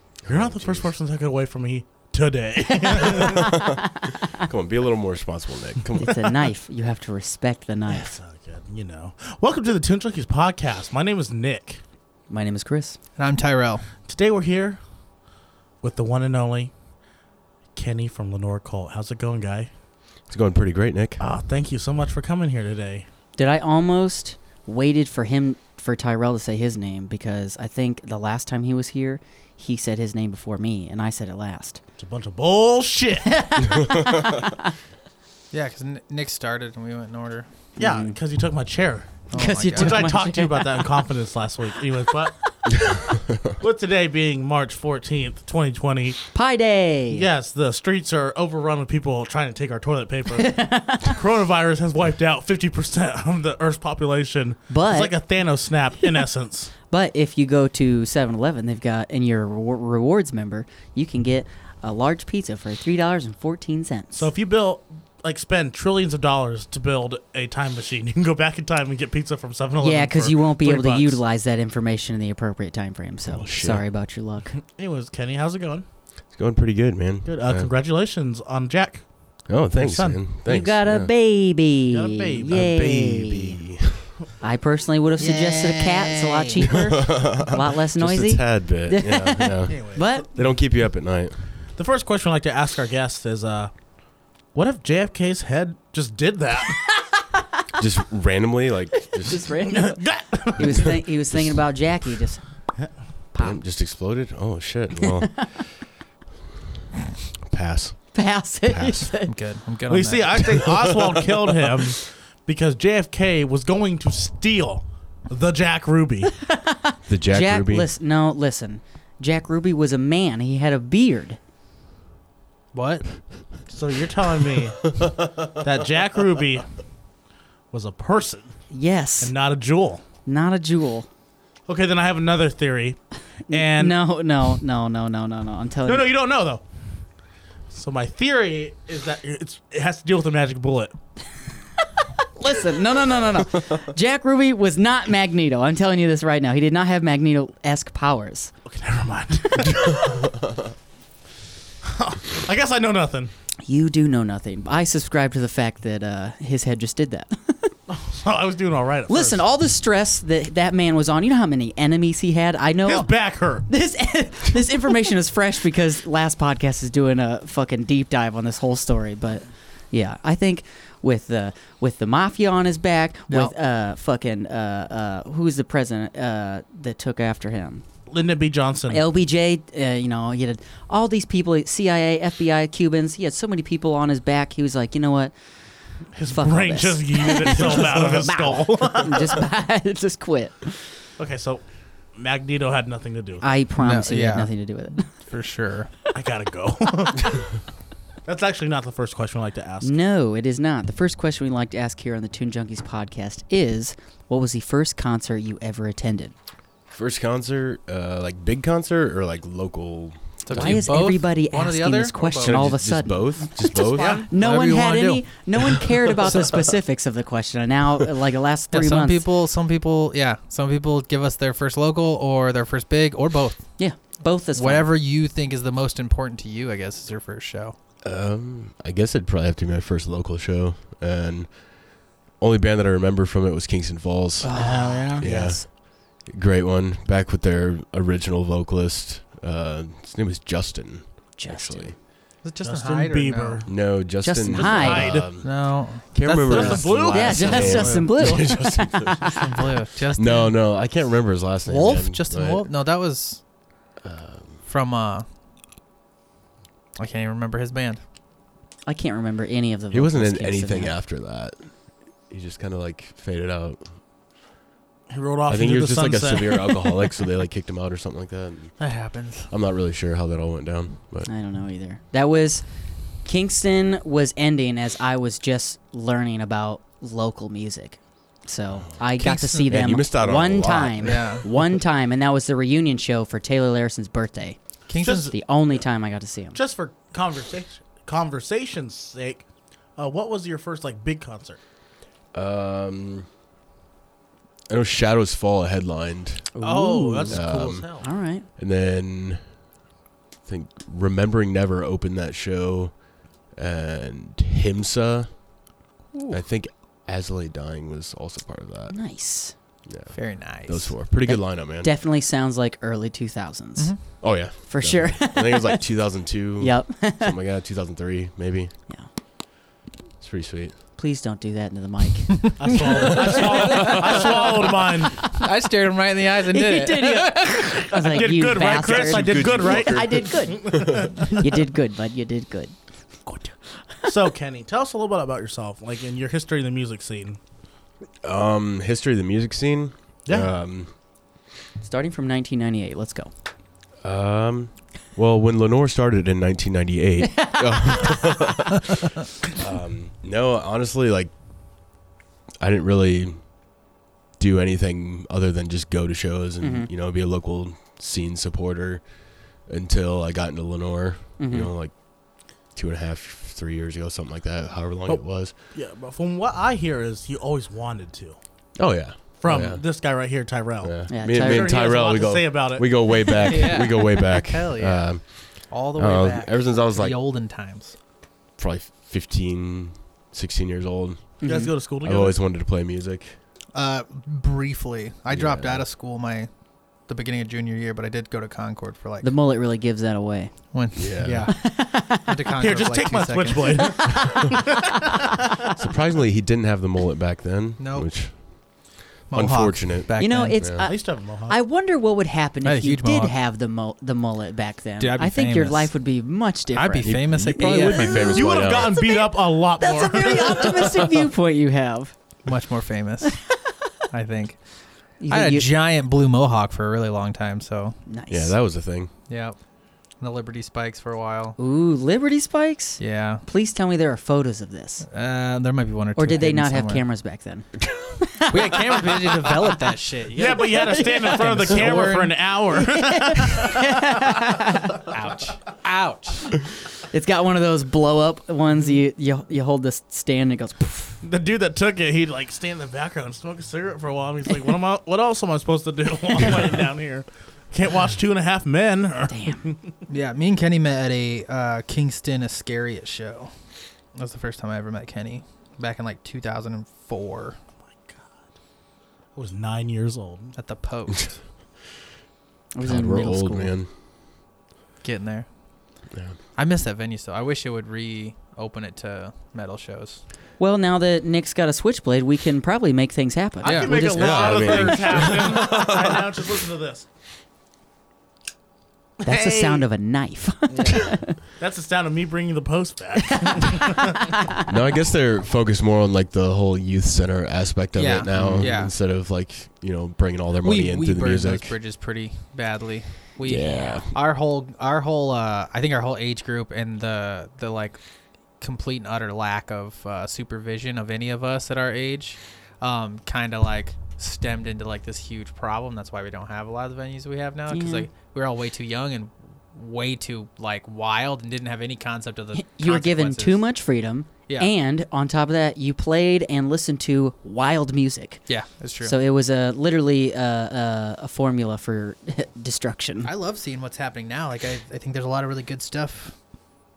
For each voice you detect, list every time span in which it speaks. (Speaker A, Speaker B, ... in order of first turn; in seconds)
Speaker A: 0.2-0.9, 3.1-6.4, 20.3-21.2, 33.9-34.4, 73.3-73.8, 76.3-77.7, 79.5-81.1, 82.5-84.1, 86.7-91.4, 97.8-99.6, 100.7-101.5, 103.4-105.8, 107.5-109.1, 117.1-117.9, 206.9-211.0, 212.4-214.2, 228.0-242.0, 243.7-249.4, 250.2-252.7, 254.0-254.7, 259.9-261.7, 262.3-263.9, 265.5-268.8, 269.5-271.3, 279.7-281.5, 292.3-293.3, 294.7-296.5, 297.3-299.5, 300.4-305.5, 306.3-309.0, 309.9-311.9, 314.2-318.7, 320.2-320.8, 323.7-324.1, 328.6-331.1, 338.2-340.9, 344.0-351.3, 352.6-353.4, 354.4-365.5, 368.8-369.8, 370.8-377.2, 378.6-383.4, 385.3-385.9, 390.9-391.5, 395.8-400.9, 407.0-409.0, 418.3-419.1, 462.8-463.9, 466.1-466.4, 474.1-476.3, 484.7-491.8, 493.4-494.1
Speaker B: 0.3-3.5, 7.9-11.8, 14.1-14.8, 15.8-16.7, 17.8-19.7, 21.2-23.1, 32.0-33.4, 37.8-42.5, 43.6-46.2, 47.1-56.7, 64.1-71.2, 74.5-75.8, 77.2-79.1, 79.7-80.2, 81.9-82.8, 89.7-90.1, 91.8-93.7, 94.5-96.8, 99.7-101.0, 109.9-116.4, 123.7-126.7, 127.7-128.5, 129.2-130.0, 131.7-134.0, 135.9-136.6, 137.7-140.9, 148.7-150.3, 151.8-153.3, 157.9-159.4, 162.8-163.7, 178.1-179.0, 186.1-189.4, 191.2-193.4, 196.1-197.5, 198.2-200.0, 213.7-214.3, 234.5-235.6, 242.7-243.7, 244.5-245.3, 246.5-247.7, 265.1-267.0, 285.0-285.3, 286.5-291.6, 296.6-298.1, 322.6-325.3, 328.1-331.5, 334.1-337.4, 340.3-340.5, 365.1-368.4, 369.4-372.9, 381.4-382.4, 392.6-395.1, 400.8-401.6, 407.6-411.0, 430.3-434.2, 441.2-449.9, 458.0-458.4, 459.4-460.6, 473.6-477.1, 479.2-479.9, 481.6-484.2
Speaker C: 2.8-3.7, 6.0-8.1, 12.3-13.0, 23.4-31.8, 33.3-34.7, 37.8-38.2, 39.3-41.0, 46.3-47.3, 50.4-51.2, 54.7-55.1, 56.9-64.3, 69.8-74.5, 80.5-83.6, 84.4-90.3, 97.2-97.7, 99.0-102.4, 103.3-103.6, 105.0-105.5, 108.1-109.3, 116.5-121.4, 128.7-129.3, 130.3-131.1, 133.5-136.1, 142.2-148.5, 153.7-157.7, 159.1-177.8, 178.9-185.3, 186.3-190.8, 193.4-195.1, 199.8-206.3, 210.5-219.2, 223.8-224.9, 234.4-235.6, 241.4-242.0, 244.2-245.2, 247.1-249.4, 258.9-261.0, 271.3-272.6, 273.2-284.6, 285.3-286.6, 296.6-298.5, 308.9-309.6, 311.3-315.8, 316.6-317.4, 321.0-322.5, 326.5-332.8, 341.8-343.3, 347.3-348.5, 356.6-356.9, 361.4-361.7, 371.1-371.8, 381.4-381.7, 389.2-390.7, 391.5-392.6, 400.2-412.1, 413.5-413.8, 415.2-415.7, 418.1-418.6, 421.6-425.1, 426.2-429.7, 430.4-431.4, 432.8-435.0, 437.1-441.2, 449.3-449.6, 462.7-463.7, 470.6-475.3, 479.2-481.4, 483.4-483.7, 488.4-488.7, 507.7-508.1, 512.6-518.4, 519.0-523.3
Speaker D: 13.2-13.9, 35.5-37.5, 39.3-40.1, 85.2-86.4, 109.2-110.8, 122.7-123.1, 193.8-195.9, 210.4-212.7, 214.0-216.8, 218.7-223.7, 224.5-227.8, 242.4-243.6, 245.2-248.1, 249.3-250.6, 251.7-253.4, 254.7-255.2, 257.0-258.0, 268.8-269.5, 279.2-279.8, 281.0-281.4, 284.9-285.3, 310.1-311.0, 323.1-324.4, 325.2-328.4, 373.4-377.9, 383.7-386.5, 387.1-389.3, 390.7-394.1, 397.8-398.7, 399.3-400.7, 402.6-403.3, 405.0-405.9, 406.8-408.5, 412.4-413.4, 414.1-414.6, 415.3-418.0, 419.3-419.6, 420.2-421.6, 423.0-423.4, 425.1-427.0, 428.5-432.5, 435.0-436.5, 450.1-453.5, 454.1-457.6, 460.6-461.4, 465.0-465.5, 466.6-470.2, 473.6-474.2, 487.9-488.9, 490.6-498.0, 498.6-513.6, 518.5-519.2, 523.2-526.4